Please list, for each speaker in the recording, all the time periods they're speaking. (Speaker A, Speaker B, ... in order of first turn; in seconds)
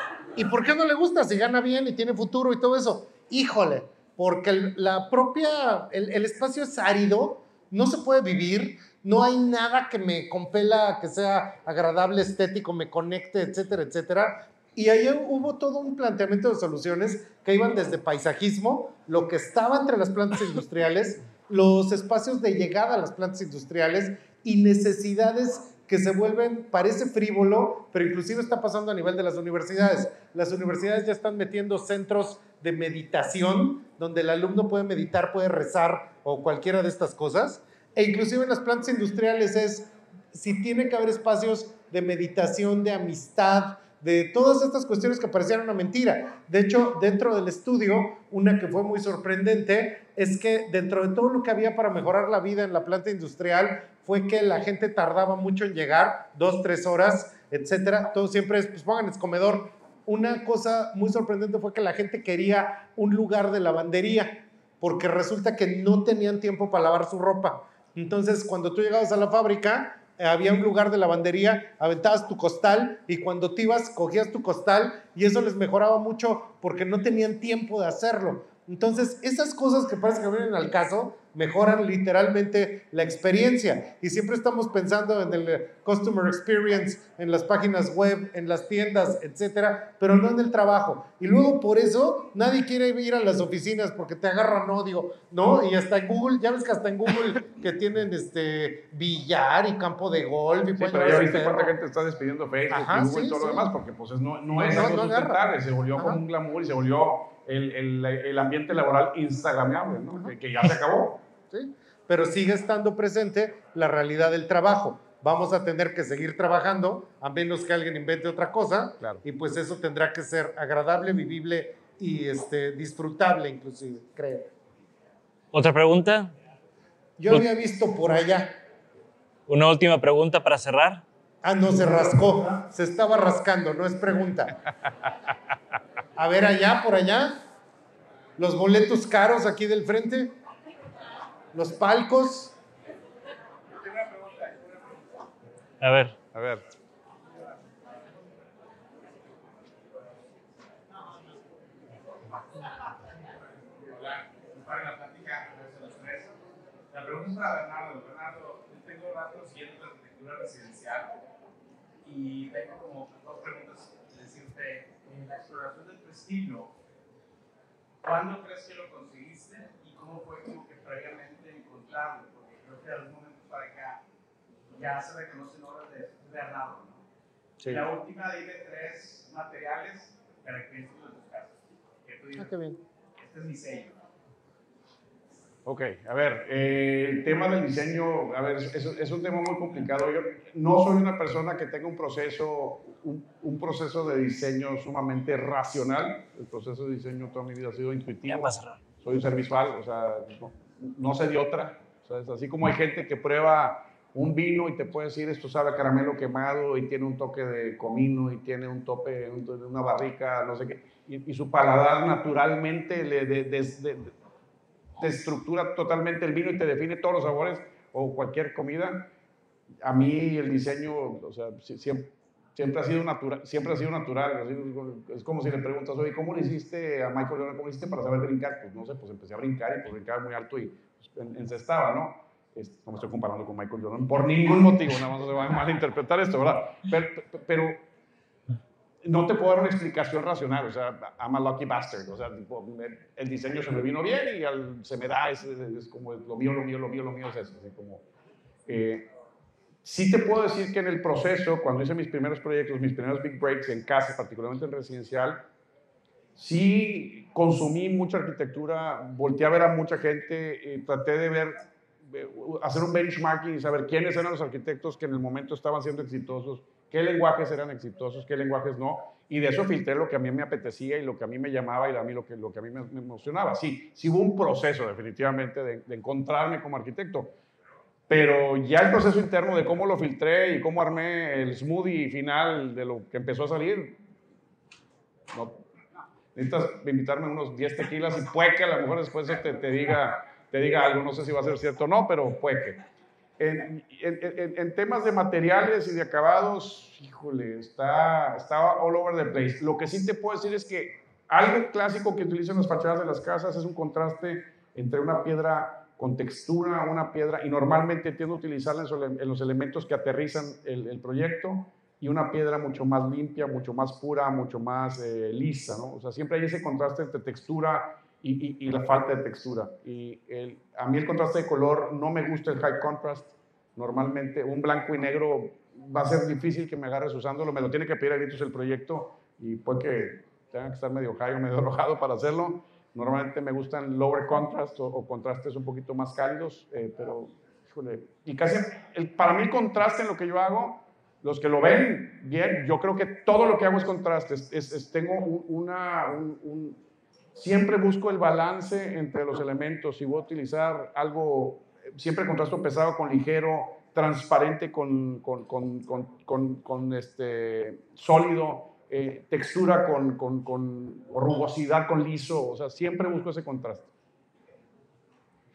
Speaker A: 0.3-101.7, 102.7-103.7, 104.5-105.4, 111.5-124.5, 127.2-128.6, 131.4-134.6, 136.2-137.4, 138.4-140.3, 141.5-142.5, 177.6-177.8, 182.3-182.8
Speaker B: 100.8-111.2, 146.3-146.6, 185.6-214.1, 215.0-219.1, 219.8-237.8, 239.0-248.0, 248.7-249.1, 249.8-255.4, 256.4-277.3, 278.1-284.0, 285.3-285.6, 286.3-292.8, 293.4-346.8, 347.3-363.9
Speaker C: 125.5-126.3, 129.5-131.0, 145.8-146.1, 198.3-198.8
Speaker D: 143.9-144.5, 153.8-156.3, 156.9-161.2, 162.0-166.7, 168.0-174.0, 174.7-177.0, 177.6-182.5, 183.2-183.9